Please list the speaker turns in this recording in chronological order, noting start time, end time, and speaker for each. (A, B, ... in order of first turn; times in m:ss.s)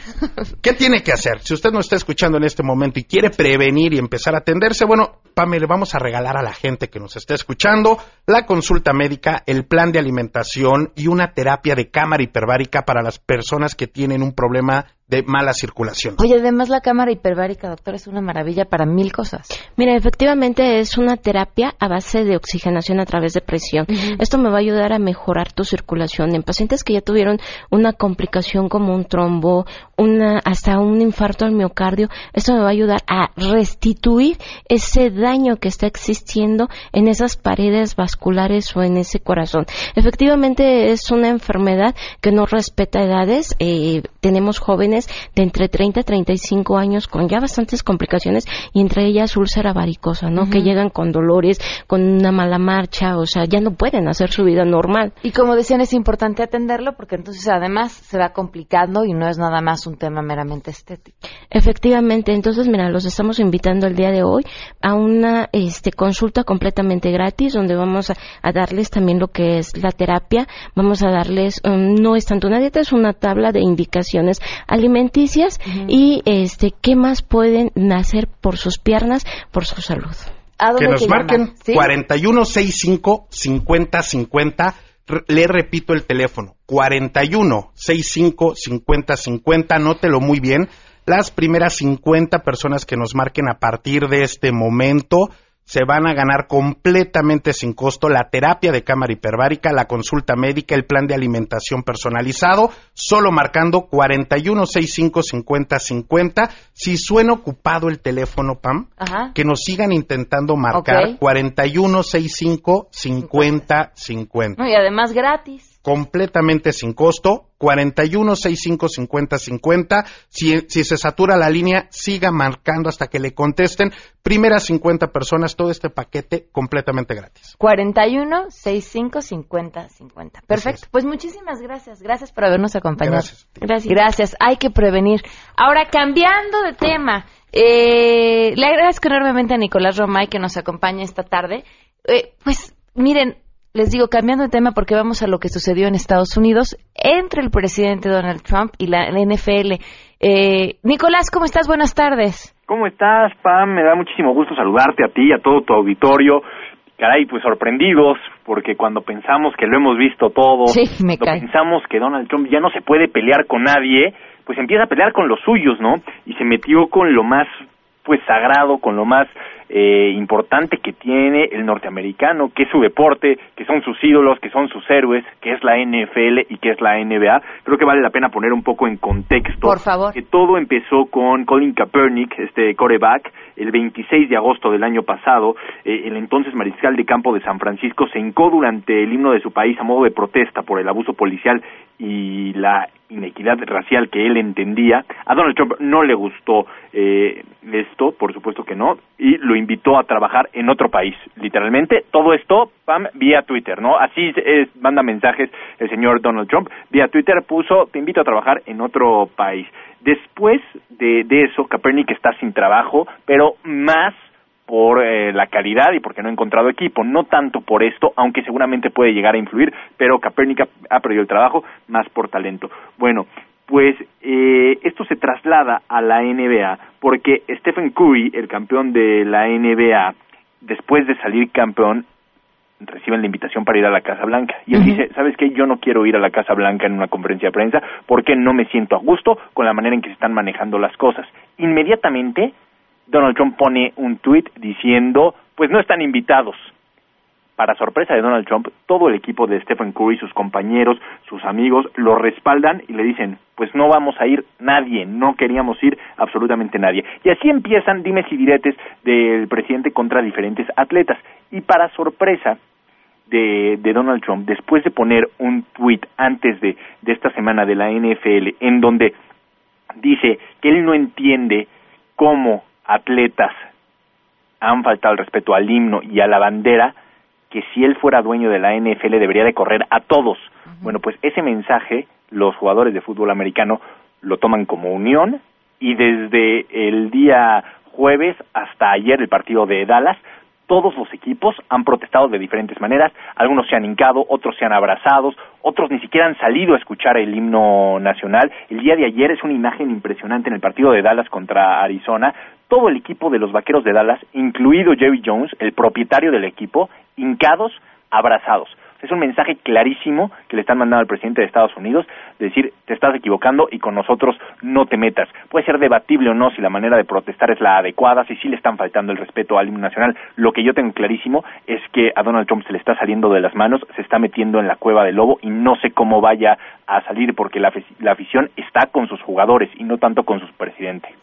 0:00.6-0:16.2 A
0:16.2-0:19.5 B
0:19.8-0:55.1 C
0:50.4-0:50.7 B
0:55.2-1:01.1 B
1:01.5-1:20.3 C
1:15.6-1:15.9 B
1:20.6-1:21.9 B
1:20.8-1:54.6 A
1:49.0-1:49.3 B
1:50.7-1:51.1 B
1:53.2-1:53.6 B
1:54.6-1:55.7 B
1:55.8-2:07.5 A
2:07.6-2:13.3 B
2:10.5-2:10.8 A
2:13.0-2:13.6 A
2:13.6-2:14.0 C
2:13.9-2:32.5 B
2:32.7-2:36.4 D
2:37.0-2:47.5 D
2:40.7-2:41.4 B
2:48.0-3:52.0 D
2:59.6-3:00.2 B
3:52.8-4:02.5 D
4:03.1-4:06.7 D
4:07.6-4:22.6 D
4:23.3-4:29.1 D
4:30.0-4:33.6 D
4:34.6-4:37.0 D
4:37.5-5:31.1 D